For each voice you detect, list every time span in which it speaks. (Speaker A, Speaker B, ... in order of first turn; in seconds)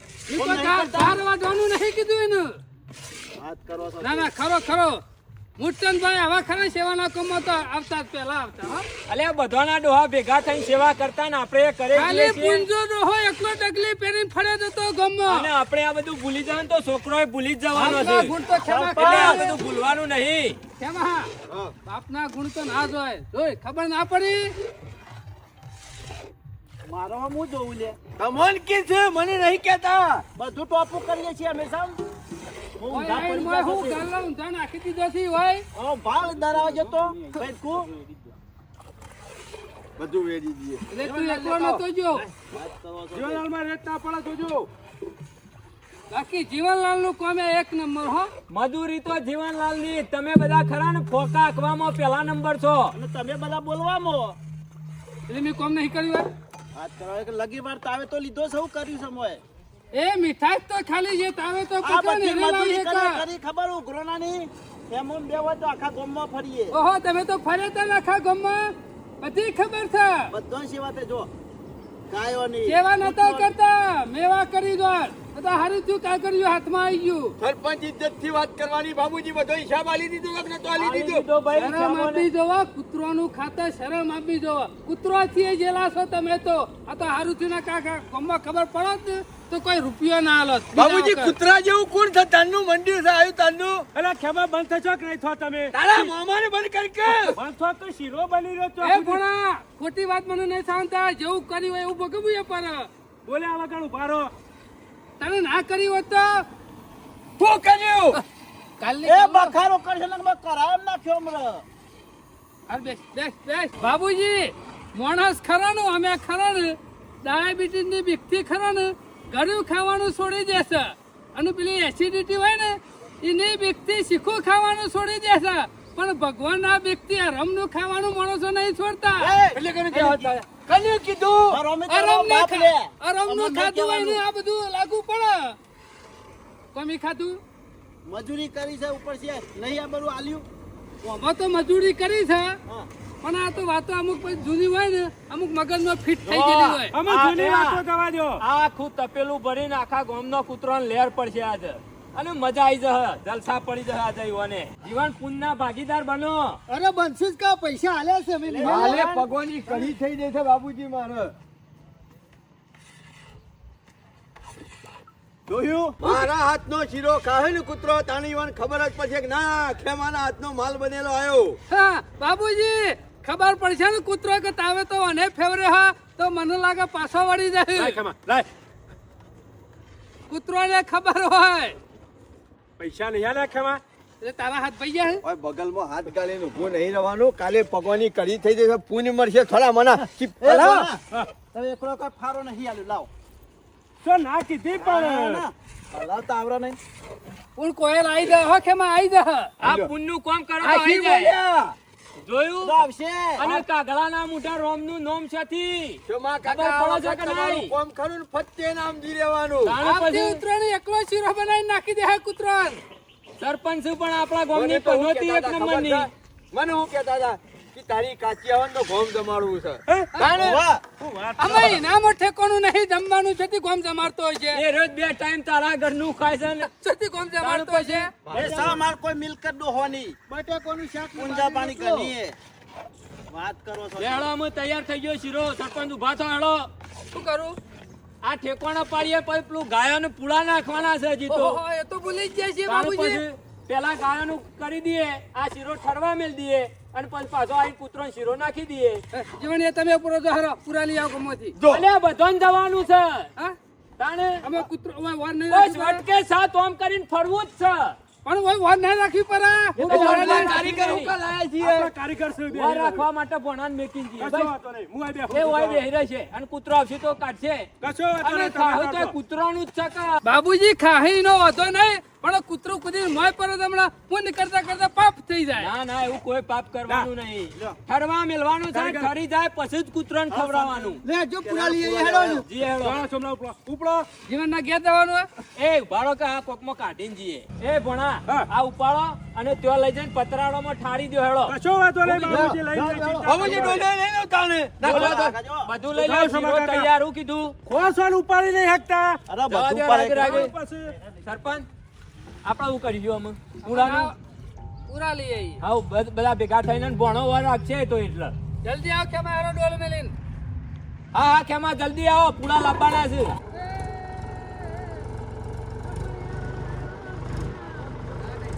Speaker A: 0.3-2.6, 4.0-5.0, 5.6-8.9, 11.9-15.5, 17.7-19.5, 20.8-21.3, 21.9-24.5, 32.9-35.7, 40.9-42.3, 46.1-48.3, 55.3-56.3, 59.9-63.2, 66.7-70.3, 72.7-77.3, 81.5-91.4, 98.8-102.9, 105.2-106.5, 108.8-109.6, 112.7-129.3, 131.9-135.6, 136.7-137.4, 141.0-142.6, 143.2-147.0, 171.7-178.0, 180.3-181.8, 184.2-185.2, 197.6-199.6, 209.8-212.8, 221.4-224.6, 226.6-228.1, 237.1-237.6, 241.3-243.2, 249.1-251.6, 254.4-256.0, 258.2-260.5, 270.2-275.7, 284.3-285.3, 303.6-304.1, 304.9-305.6, 308.6-310.1, 313.5-315.0, 315.9-317.7
Speaker B: 0.4-1.2, 3.4-4.3, 18.5-19.5, 26.9-28.0, 30.4-32.0, 32.8-34.1, 35.7-37.9, 41.0-43.5, 52.9-54.4, 56.8-59.4, 61.8-66.8, 70.3-71.3, 72.1-73.5, 109.0-111.7, 129.2-130.3, 131.5-134.2, 138.1-140.5, 158.5-159.3, 165.5-166.0, 190.0-191.0, 191.5-193.1, 194.8-196.8, 202.6-203.6, 220.3-220.8, 228.3-230.3, 231.1-232.4, 233.3-234.3, 280.3-282.4, 294.8-295.7, 299.3-300.5
Speaker C: 9.1-12.7, 15.3-18.3, 19.0-20.6, 48.5-52.9, 80.8-82.3, 146.2-147.8, 148.4-156.6, 199.6-201.4, 202.2-202.8, 203.4-207.8, 209.6-210.4, 213.4-216.1, 220.2-220.6, 224.5-226.7, 227.4-228.1, 234.0-236.7, 238.2-241.6, 242.7-249.0, 251.7-253.3, 254.0-254.4, 255.5-258.0, 259.8-261.1, 262.5-264.5, 265.3-270.2, 275.6-281.0, 282.4-283.0, 285.6-291.6, 292.1-292.5, 294.8-297.6, 299.5-300.5, 301.2-301.7, 302.4-304.1, 305.6-308.4, 311.1-313.4
Speaker D: 28.2-30.3, 40.0-40.9, 77.4-81.2, 90.8-93.9, 95.7-97.4, 107.4-108.2, 129.6-131.6, 158.6-161.3, 166.0-171.6, 185.2-190.9, 199.6-199.9, 200.6-201.8, 206.1-209.8, 214.5-219.8, 228.2-228.8, 251.6-251.8, 259.8-261.9, 292.2-292.6, 293.2-295.3
Speaker E: 36.5-37.4, 43.1-44.7, 94.0-96.0, 97.3-99.2, 103.3-104.3, 146.9-148.4, 177.8-178.5, 182.8-183.8, 194.0-195.4, 219.9-220.2, 221.0-221.8, 260.0-260.4, 261.6-263.1, 264.2-265.8, 267.8-269.1, 278.7-279.1, 282.7-284.1, 291.5-293.8, 295.9-296.9, 297.7-299.2, 300.2-300.9
Speaker F: 156.7-159.2, 228.3-228.8, 230.3-232.1, 281.0-282.5, 292.4-293.4